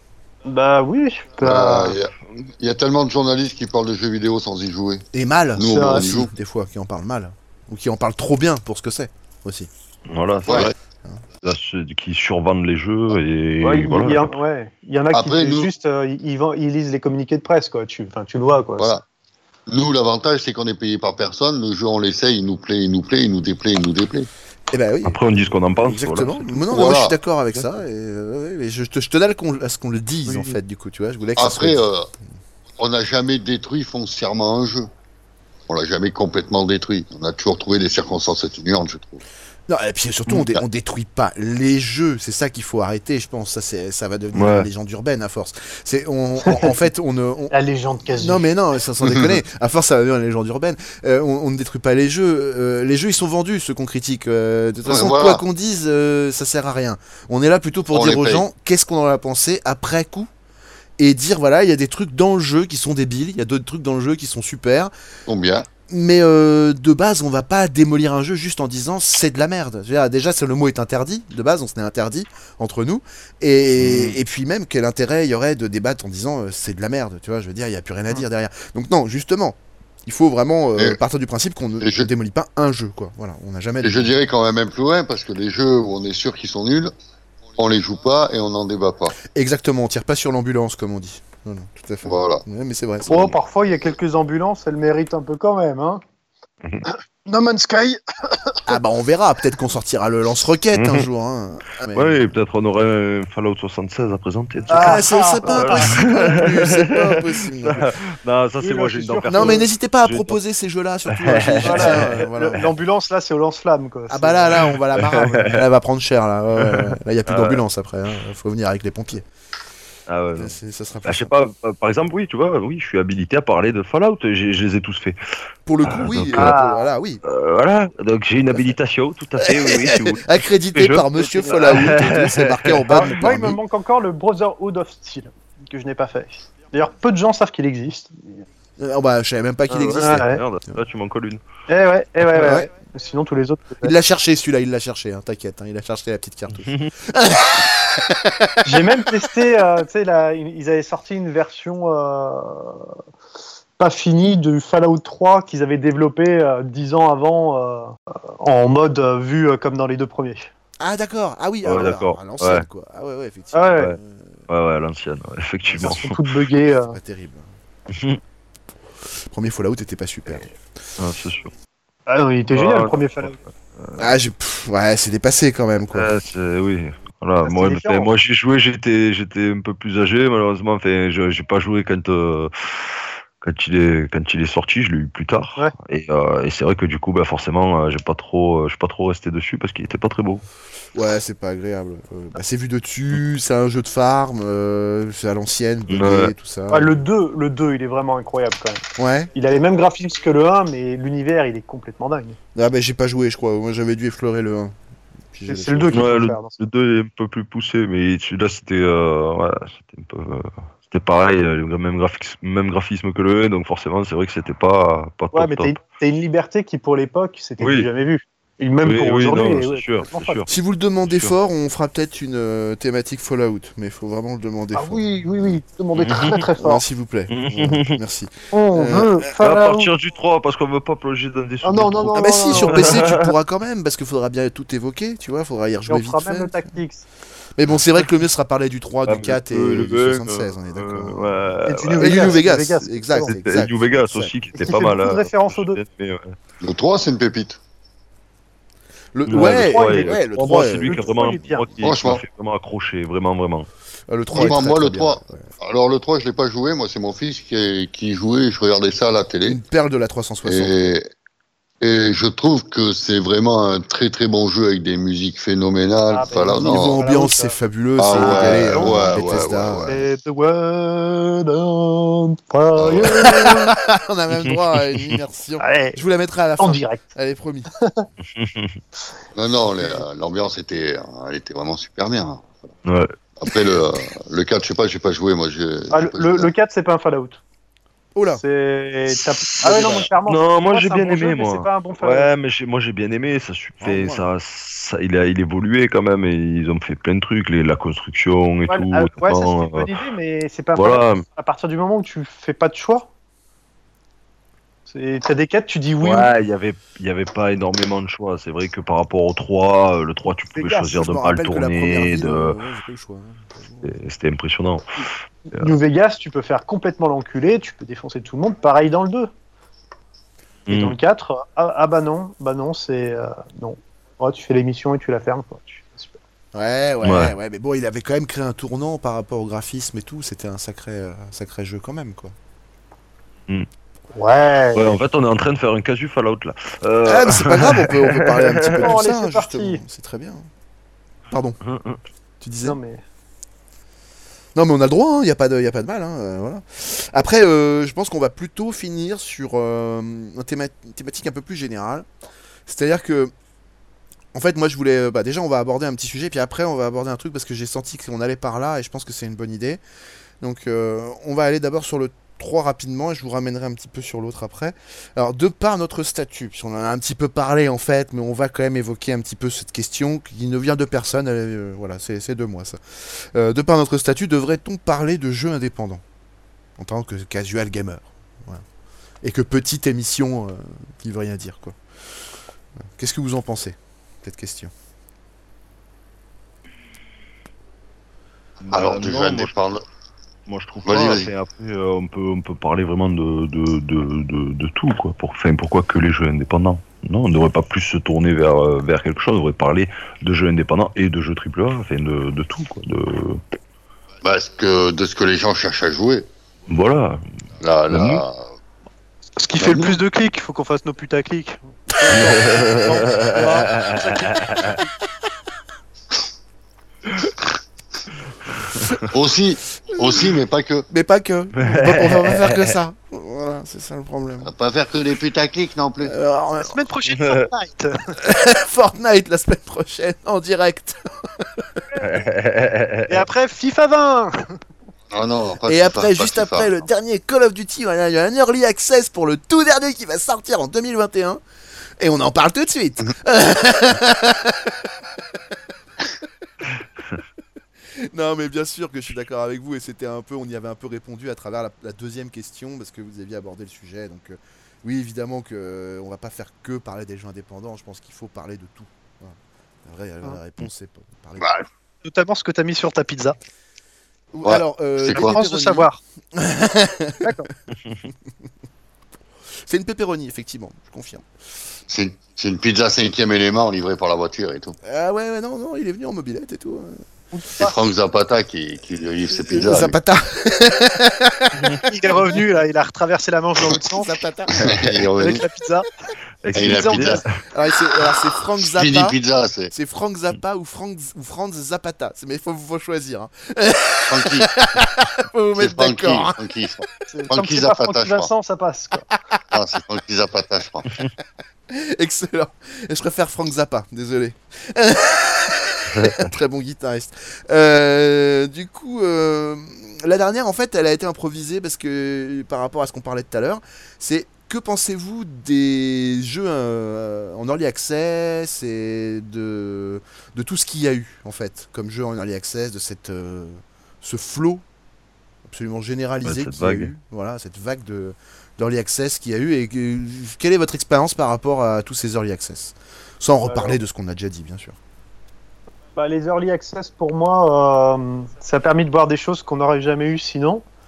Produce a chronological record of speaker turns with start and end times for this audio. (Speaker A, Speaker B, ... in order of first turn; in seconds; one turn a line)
Speaker A: 0.5-2.0
Speaker B: 1.4-6.3
Speaker C: 5.1-9.7
Speaker A: 5.7-6.1
Speaker D: 10.1-10.7
Speaker B: 10.5-10.7
Speaker D: 11.4-14.3
Speaker A: 13.6-18.9
Speaker B: 15.1-15.7
Speaker B: 18.8-19.0
Speaker B: 19.7-24.3
Speaker C: 24.7-31.8
Speaker D: 25.1-26.7
Speaker B: 26.7-27.2
Speaker A: 30.3-30.5
Speaker B: 31.4-32.1
Speaker B: 32.8-34.9
Speaker B: 35.7-39.2
Speaker C: 39.7-47.5
Speaker D: 44.3-44.7
Speaker A: 47.5-48.5
Speaker C: 48.1-60.3
Speaker B: 54.9-55.4
Speaker B: 57.9-58.5
Speaker C: 61.0-64.9
Speaker B: 65.3-65.7
Speaker C: 65.9-84.1
Speaker B: 73.8-74.2
Speaker B: 81.8-82.1
Speaker B: 83.8-86.9
Speaker B: 87.6-89.2
Speaker C: 89.3-93.4
Speaker B: 92.0-92.4
Speaker A: 93.1-96.0
Speaker A: 96.9-98.8
Speaker C: 98.7-102.3
Speaker D: 100.7-101.1
Speaker D: 101.9-110.4
Speaker A: 104.7-106.5
Speaker C: 104.7-107.9
Speaker A: 108.6-109.7
Speaker C: 109.3-112.7
Speaker D: 111.1-112.2
Speaker A: 111.6-114.6
Speaker C: 114.1-119.3
Speaker D: 115.0-115.6
Speaker D: 117.3-117.6
Speaker D: 120.1-125.2
Speaker C: 120.3-121.3
Speaker C: 125.7-127.2
Speaker D: 125.8-126.5
Speaker A: 126.3-126.9
Speaker D: 127.2-133.2
Speaker C: 129.4-133.6
Speaker A: 131.4-132.0
Speaker A: 132.9-138.4
Speaker C: 138.8-140.8
Speaker A: 139.7-140.4
Speaker D: 140.0-141.4
Speaker A: 141.7-143.9
Speaker C: 142.3-142.7
Speaker C: 143.8-149.4
Speaker D: 146.6-146.9
Speaker A: 148.6-152.9
Speaker A: 153.8-160.5
Speaker C: 160.8-164.4
Speaker D: 161.6-162.7
Speaker A: 163.5-163.9
Speaker D: 164.5-166.2
Speaker A: 165.8-167.0
Speaker C: 166.8-167.5
Speaker D: 167.9-168.2
Speaker C: 169.3-170.5
Speaker D: 171.0-171.5
Speaker A: 172.1-173.3
Speaker D: 172.5-174.1
Speaker C: 174.0-176.1
Speaker D: 175.9-190.4
Speaker A: 177.4-178.1
Speaker C: 190.9-197.0
Speaker D: 195.9-196.3
Speaker A: 196.7-202.4
Speaker C: 199.0-199.3
Speaker C: 202.6-204.8
Speaker C: 205.3-206.1
Speaker A: 205.5-206.6
Speaker D: 205.9-215.8
Speaker A: 215.3-220.4
Speaker D: 217.6-217.9
Speaker D: 218.8-220.5
Speaker C: 220.5-225.6
Speaker D: 221.0-221.3
Speaker A: 224.7-226.8
Speaker D: 226.0-226.4
Speaker C: 226.6-229.3
Speaker D: 227.3-228.0
Speaker A: 228.5-229.9
Speaker D: 229.3-233.3
Speaker A: 231.6-233.0
Speaker C: 232.1-236.8
Speaker A: 235.9-237.1
Speaker C: 237.6-244.3
Speaker D: 239.1-242.4
Speaker A: 241.7-243.4
Speaker D: 243.3-246.4
Speaker A: 244.6-245.8
Speaker B: 246.6-247.6
Speaker C: 249.1-251.1
Speaker D: 249.3-253.7
Speaker A: 249.3-251.7
Speaker B: 251.8-252.2
Speaker C: 254.1-255.5
Speaker B: 254.3-259.6
Speaker C: 259.4-260.9
Speaker B: 260.4-261.1
Speaker B: 261.8-267.0
Speaker A: 266.1-267.6
Speaker C: 266.5-270.0
Speaker B: 268.0-270.0
Speaker A: 268.1-269.3
Speaker A: 269.9-273.7
Speaker B: 272.8-273.3
Speaker C: 273.0-277.7
Speaker D: 274.4-275.2
Speaker A: 275.6-276.0
Speaker A: 276.6-277.0
Speaker A: 277.8-278.1
Speaker D: 278.4-278.8
Speaker B: 279.4-282.5
Speaker D: 282.9-283.1
Speaker B: 283.4-286.5
Speaker A: 285.9-287.4
Speaker C: 288.1-288.4
Speaker A: 288.4-292.3
Speaker D: 289.6-299.9
Speaker C: 293.8-294.2
Speaker A: 298.7-303.1
Speaker D: 300.8-301.2
Speaker A: 304.9-306.3
Speaker D: 306.0-312.6
Speaker C: 310.8-314.0
Speaker D: 313.8-315.7
Speaker A: 315.6-319.3
Speaker D: 320.7-321.0
Speaker A: 320.7-326.2
Speaker C: 326.5-332.4
Speaker D: 327.0-327.4
Speaker A: 334.1-334.9
Speaker D: 334.7-338.8
Speaker C: 337.1-340.5
Speaker A: 338.8-339.8
Speaker C: 341.3-341.6
Speaker D: 341.6-342.0
Speaker C: 342.4-342.8
Speaker A: 342.6-343.0
Speaker C: 344.6-352.1
Speaker C: 352.7-353.3
Speaker C: 354.3-359.8
Speaker C: 360.4-376.0
Speaker C: 376.8-378.6
Speaker C: 379.2-381.8
Speaker C: 383.0-384.7
Speaker D: 388.6-389.5
Speaker B: 388.7-389.8
Speaker D: 390.5-403.4
Speaker B: 390.9-391.3
Speaker B: 404.2-406.3
Speaker D: 406.7-407.2
Speaker B: 407.6-408.4
Speaker D: 407.9-408.2
Speaker A: 409.4-414.9
Speaker B: 409.6-410.0
Speaker D: 412.1-414.8
Speaker D: 418.6-419.0
Speaker B: 419.1-420.9
Speaker C: 420.9-424.5
Speaker D: 421.6-422.8
Speaker B: 424.4-426.1
Speaker C: 426.0-426.8
Speaker A: 426.6-428.2
Speaker D: 427.1-427.5
Speaker C: 428.2-431.8
Speaker D: 432.0-433.2
Speaker A: 433.1-434.6
Speaker B: 435.1-436.7
Speaker C: 435.7-441.4
Speaker C: 442.0-445.5
Speaker C: 448.0-461.5
Speaker B: 461.4-461.7
Speaker A: 462.1-463.4
Speaker C: 464.3-467.5
Speaker B: 464.4-465.4
Speaker A: 465.1-466.0
Speaker A: 467.2-467.5
Speaker C: 469.7-471.2
Speaker B: 471.9-474.8
Speaker C: 474.8-477.0
Speaker A: 477.3-477.8
Speaker B: 477.6-480.0
Speaker C: 479.3-481.8
Speaker A: 481.7-484.1
Speaker C: 483.9-484.9
Speaker B: 484.6-485.4
Speaker A: 485.2-485.9
Speaker D: 486.4-487.3
Speaker B: 486.6-487.2
Speaker A: 486.6-487.2
Speaker C: 487.5-489.2
Speaker B: 488.6-489.7
Speaker C: 489.7-496.4
Speaker B: 494.1-494.5
Speaker B: 495.6-498.3
Speaker A: 497.1-499.1
Speaker B: 499.5-500.9
Speaker C: 501.7-524.6
Speaker D: 505.9-506.3
Speaker C: 525.5-534.8
Speaker D: 526.2-526.9
Speaker A: 533.5-533.8
Speaker A: 536.0-540.6